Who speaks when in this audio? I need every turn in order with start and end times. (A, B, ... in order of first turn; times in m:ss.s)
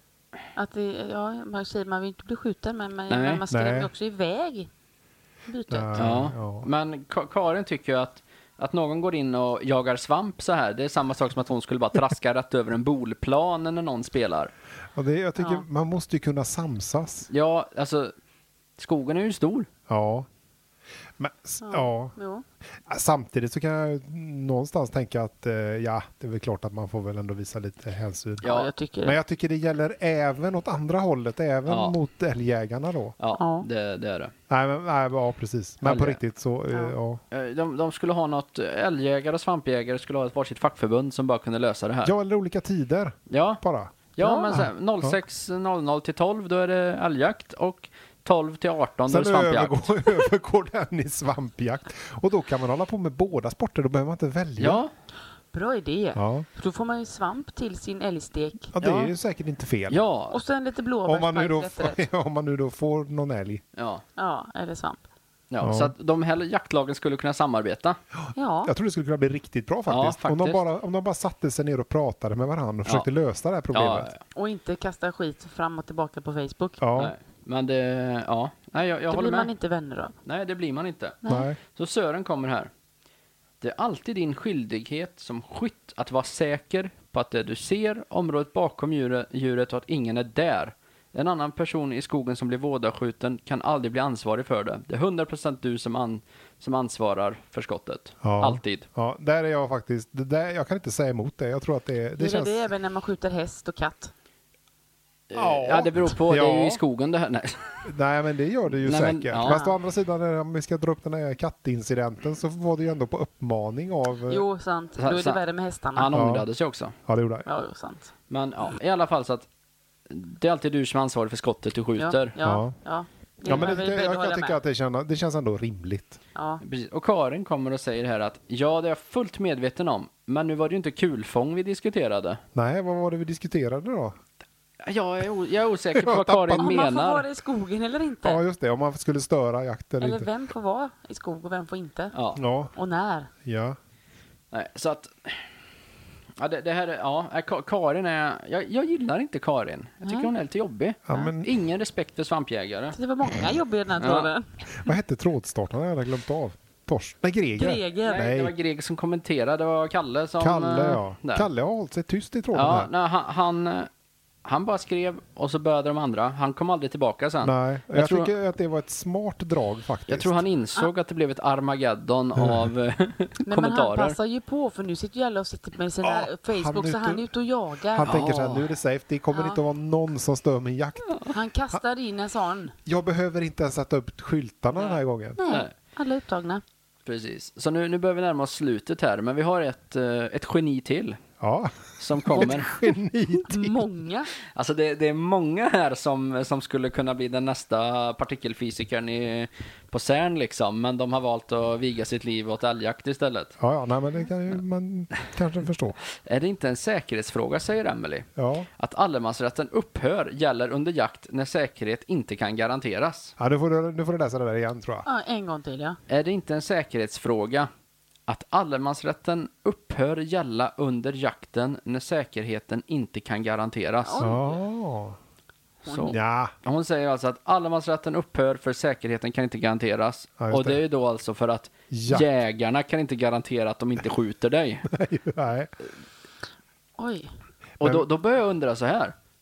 0:00.6-0:04.7 A
0:03.1-0:03.4 B
0:03.5-0:03.9 C
0:05.5-0:06.1 A
0:05.7-0:06.7 C
0:06.0-0:14.5 B
0:15.0-0:17.3 C
0:15.4-0:15.6 A
0:17.3-0:18.1 B
0:18.8-0:19.7 B
0:19.9-0:20.3 C
0:21.2-0:22.1 C
0:21.6-0:22.4 A
0:22.8-0:28.4 C
0:28.4-0:29.2 A
0:28.4-0:28.7 B
0:29.0-0:33.2 C
0:31.7-0:32.0 B
0:33.2-0:34.3 B
0:33.4-0:33.7 A
0:34.5-0:37.2 C
0:35.8-0:36.2 B
0:37.3-0:42.2 B
0:42.0-0:45.2 C
0:43.3-0:43.6 B
0:44.2-0:50.1 B
0:49.1-0:54.8 C
0:54.6-0:54.9 B
0:55.5-0:59.1 A
0:56.2-0:56.5 C
0:58.7-1:00.0 C
0:59.9-1:00.4 B
1:00.3-1:02.0 A
1:01.0-1:03.6 C
1:03.8-1:04.0 B
1:04.2-1:05.0 A
1:05.5-1:08.0 B
1:05.6-1:05.9 C
1:08.3-1:14.1 C
1:08.4-1:08.7 A
1:09.9-1:10.6 B
1:13.7-1:14.2 B
1:14.3-1:16.8 A
1:16.8-1:17.1 C
1:17.0-1:19.5 B
1:19.1-1:20.1 A
1:20.2-1:22.7 B
1:21.2-1:21.5 A
1:21.3-1:21.6 C
1:23.6-1:38.8 B
1:38.2-1:42.7 C
1:42.2-1:44.1 A
1:45.3-1:47.9 B
1:45.3-1:46.8 C
1:47.8-1:54.4 C
1:48.8-1:49.6 B
1:49.4-1:49.8 A
1:54.3-1:56.2 A
1:55.0-1:55.4 B
1:56.0-1:57.0 B
1:56.1-1:56.5 C
1:57.1-1:57.5 C
1:57.5-1:58.1 A
1:58.3-1:59.5 B
2:00.1-2:02.4 B
2:02.0-2:04.6 A
2:02.4-2:02.7 C
2:03.4-2:06.2 C
2:06.4-2:06.6 A
2:06.6-2:12.4 B
2:12.6-2:14.2 C
2:14.8-2:17.3 B
2:16.0-2:16.7 C
2:16.5-2:18.4 A
2:18.2-2:20.3 C
2:20.0-2:22.1 A
2:22.1-2:22.4 B
2:22.4-2:22.7 C
2:22.7-2:23.3 A
2:23.4-2:23.8 C
2:24.5-2:25.5 B
2:26.4-2:33.0 B
2:30.0-2:30.3 A
2:31.1-2:31.5 C
2:32.9-2:34.5 A
2:34.0-2:34.3 B
2:34.7-2:38.5 C
2:37.6-2:38.3 A
2:38.1-2:41.5 B
2:40.4-2:42.9 C
2:42.5-2:43.9 B
2:44.4-2:48.3 B
2:47.4-2:50.4 C
2:50.1-2:54.2 B
2:52.4-2:52.7 C
2:53.5-2:58.2 A
2:56.0-2:57.3 C
2:57.9-3:01.2 C
2:58.1-2:58.7 B
2:59.3-2:59.6 A
3:01.3-3:02.8 A
3:02.8-3:05.4 C
3:04.8-3:05.7 B
3:05.4-3:06.6 A
3:07.1-3:11.2 B
3:11.4-3:13.8 C
3:12.0-3:12.7 B
3:13.4-3:14.3 A
3:14.6-3:23.5 B
3:23.6-3:26.0 C
3:26.2-3:28.3 B
3:28.4-3:28.7 C
3:28.8-3:33.3 B
3:33.4-3:35.1 C
3:35.0-3:36.0 A
3:36.1-3:37.7 B
3:38.3-3:44.3 B
3:44.0-3:44.6 A
3:44.2-3:45.2 C
3:45.8-3:46.2 A
3:45.9-3:54.9 B
3:46.1-3:46.5 C
3:50.4-3:50.8 C
3:51.9-3:52.3 C
3:54.9-3:55.7 C
3:57.0-3:57.3 A
3:57.8-3:59.1 B